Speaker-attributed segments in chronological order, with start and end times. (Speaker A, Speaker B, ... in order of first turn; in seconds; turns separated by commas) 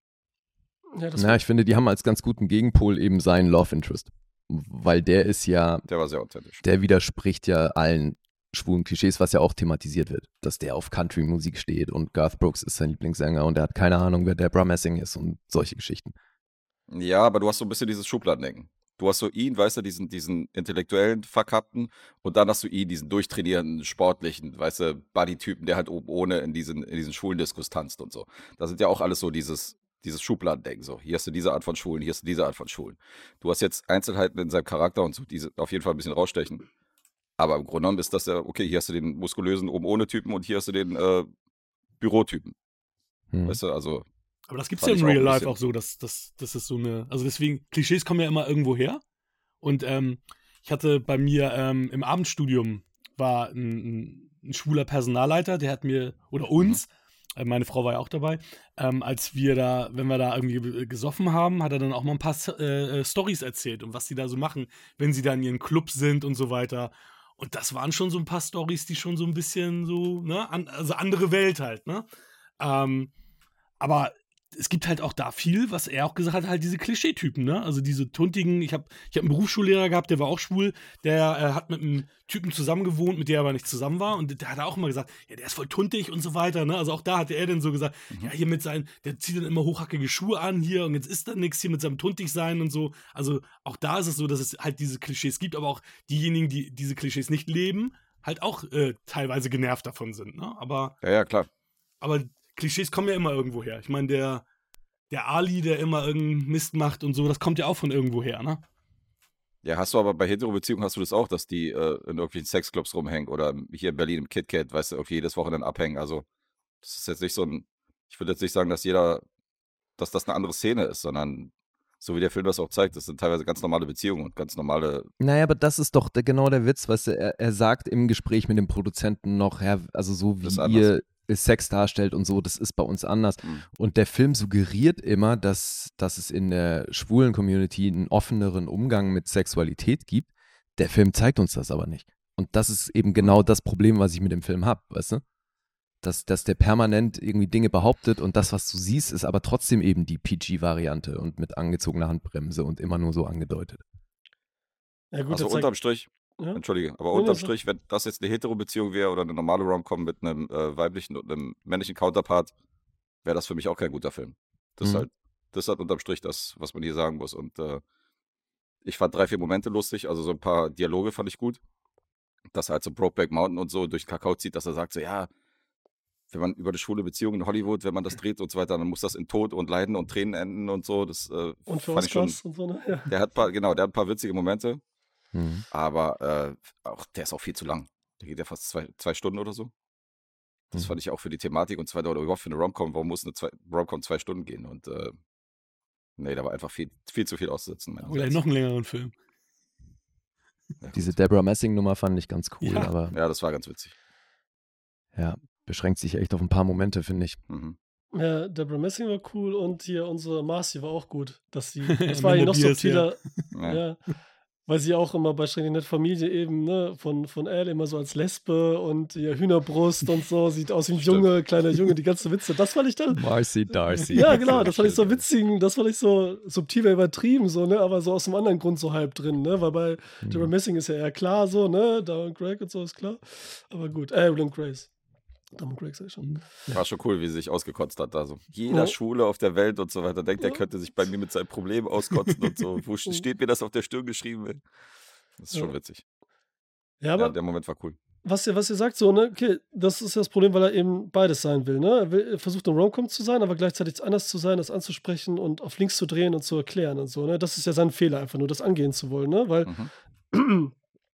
Speaker A: 0.9-1.4, Speaker B: 1.1-5.8, Speaker C: 5.9-6.6, Speaker B: 6.6-16.1, Speaker C: 16.9-36.6, Speaker C: 37.4-41.3, Speaker C: 42.0-42.5, Speaker B: 43.3-43.6, Speaker C: 43.5-44.0, Speaker D: 44.5-49.0, Speaker C: 44.8-45.5, Speaker D: 49.6-72.1, Speaker D: 72.6-73.1, Speaker D: 73.8-101.0, Speaker C: 101.0-101.5, Speaker D: 102.0-104.4, Speaker D: 105.1-108.6, Speaker C: 109.6-116.2, Speaker C: 116.8-119.2, Speaker C: 120.0-125.1, Speaker B: 125.2-145.2, Speaker C: 130.4-130.9, Speaker B: 146.0-153.8, Speaker A: 155.1-155.7, Speaker C: 155.3-162.5, Speaker A: 157.1-157.5, Speaker C: 163.2-167.8, Speaker B: 164.8-165.1, Speaker C: 168.8-171.6, Speaker C: 172.5-175.3, Speaker C: 176.3-182.4, Speaker A: 181.7-183.1, Speaker C: 183.1-184.8, Speaker B: 185.3-185.6, Speaker C: 185.7-189.7, Speaker C: 190.7-195.2, Speaker C: 196.2-198.4, Speaker D: 198.0-199.1, Speaker C: 200.8-201.2, Speaker B: 200.9-203.2, Speaker D: 202.6-202.9, Speaker C: 203.1-203.9, Speaker B: 205.1-207.4, Speaker C: 207.5-207.8, Speaker A: 208.1-214.0, Speaker D: 211.9-213.4, Speaker C: 213.5-213.8, Speaker A: 214.7-223.2, Speaker C: 220.9-221.3, Speaker B: 223.1-225.2, Speaker A: 224.1-234.9, Speaker B: 230.2-230.5, Speaker A: 235.6-236.3, Speaker C: 236.7-244.6, Speaker A: 238.7-238.9, Speaker C: 245.4-246.0, Speaker A: 247.0-247.3, Speaker C: 247.2-248.0, Speaker A: 248.2-259.7, Speaker C: 259.6-259.9, Speaker A: 260.3-260.7